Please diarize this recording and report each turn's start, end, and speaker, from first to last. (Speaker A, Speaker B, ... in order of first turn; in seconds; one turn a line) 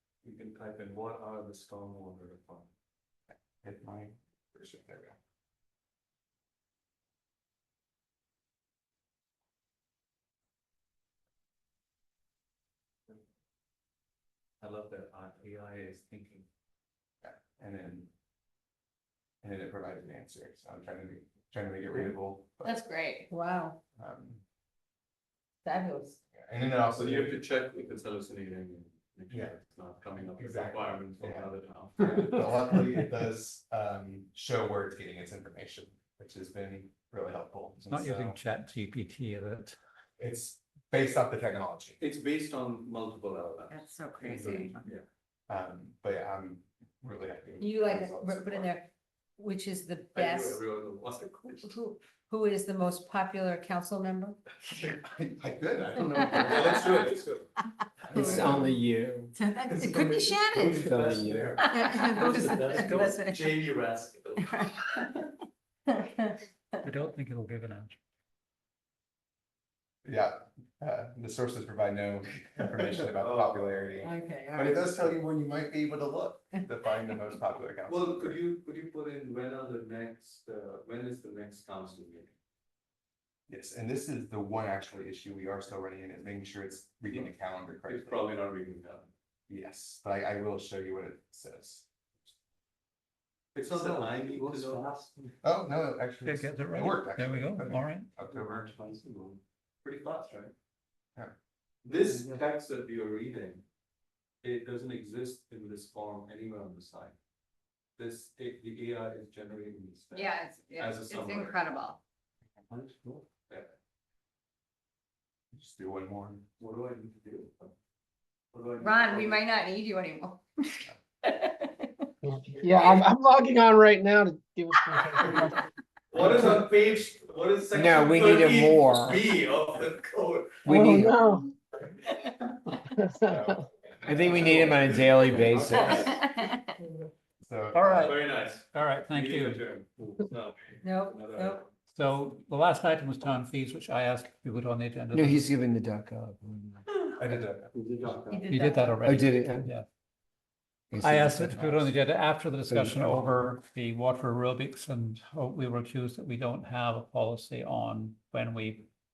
Speaker A: 0.2-2.7
Speaker B: 3.6-5.2
Speaker A: 14.6-16.4
Speaker B: 17.2-18.1
Speaker B: 19.4-22.7
Speaker C: 22.6-23.2
Speaker D: 23.3-23.8
Speaker B: 24.0-24.4
Speaker D: 25.6-26.2
Speaker B: 26.4-27.4
Speaker A: 26.9-32.4
Speaker B: 30.3-38.4
Speaker E: 37.9-39.8
Speaker B: 40.2-42.0
Speaker A: 42.0-43.9
Speaker D: 43.7-44.7
Speaker E: 44.3-44.7
Speaker B: 45.5-48.7
Speaker D: 47.6-50.6
Speaker A: 50.1-51.8
Speaker D: 51.6-54.4
Speaker B: 54.8-57.1
Speaker D: 56.0-56.7
Speaker A: 56.3-57.5
Speaker B: 58.1-58.7
Speaker D: 58.1-58.6
Speaker F: 58.2-59.3
Speaker D: 59.4-60.8
Speaker A: 59.7-64.7
Speaker C: 60.0-60.7
Speaker F: 60.6-61.5
Speaker D: 61.6-63.5
Speaker E: 62.8-63.1
Speaker E: 66.8-68.0
Speaker B: 70.0-78.4
Speaker A: 72.6-73.8
Speaker D: 74.0-74.9
Speaker A: 77.9-82.3
Speaker B: 83.5-88.3
Speaker A: 87.8-89.1
Speaker B: 89.5-91.9
Speaker A: 93.5-95.3
Speaker E: 94.4-94.7
Speaker B: 95.4-98.7
Speaker E: 96.2-98.1
Speaker A: 98.3-100.5
Speaker A: 101.8-103.6
Speaker A: 104.4-107.2
Speaker A: 108.0-111.8
Speaker C: 110.1-112.0
Speaker A: 112.7-113.7
Speaker B: 115.5-116.4
Speaker A: 116.6-117.7
Speaker A: 118.5-119.5
Speaker C: 118.8-120.4
Speaker C: 121.3-121.7
Speaker F: 122.2-125.5
Speaker A: 122.7-123.0
Speaker A: 126.1-130.7
Speaker F: 127.7-129.2
Speaker F: 130.6-131.5
Speaker F: 132.9-136.1
Speaker B: 133.2-135.6
Speaker A: 134.1-136.3
Speaker B: 137.4-138.2
Speaker E: 137.7-138.2
Speaker A: 137.9-141.7
Speaker E: 138.7-139.6
Speaker D: 140.8-141.6
Speaker E: 141.9-145.5
Speaker F: 145.2-146.8
Speaker B: 147.1-148.1
Speaker A: 147.7-148.5
Speaker D: 148.3-148.9
Speaker E: 148.5-149.8
Speaker F: 149.1-149.7
Speaker F: 150.9-151.8
Speaker E: 151.0-158.9
Speaker F: 152.9-153.2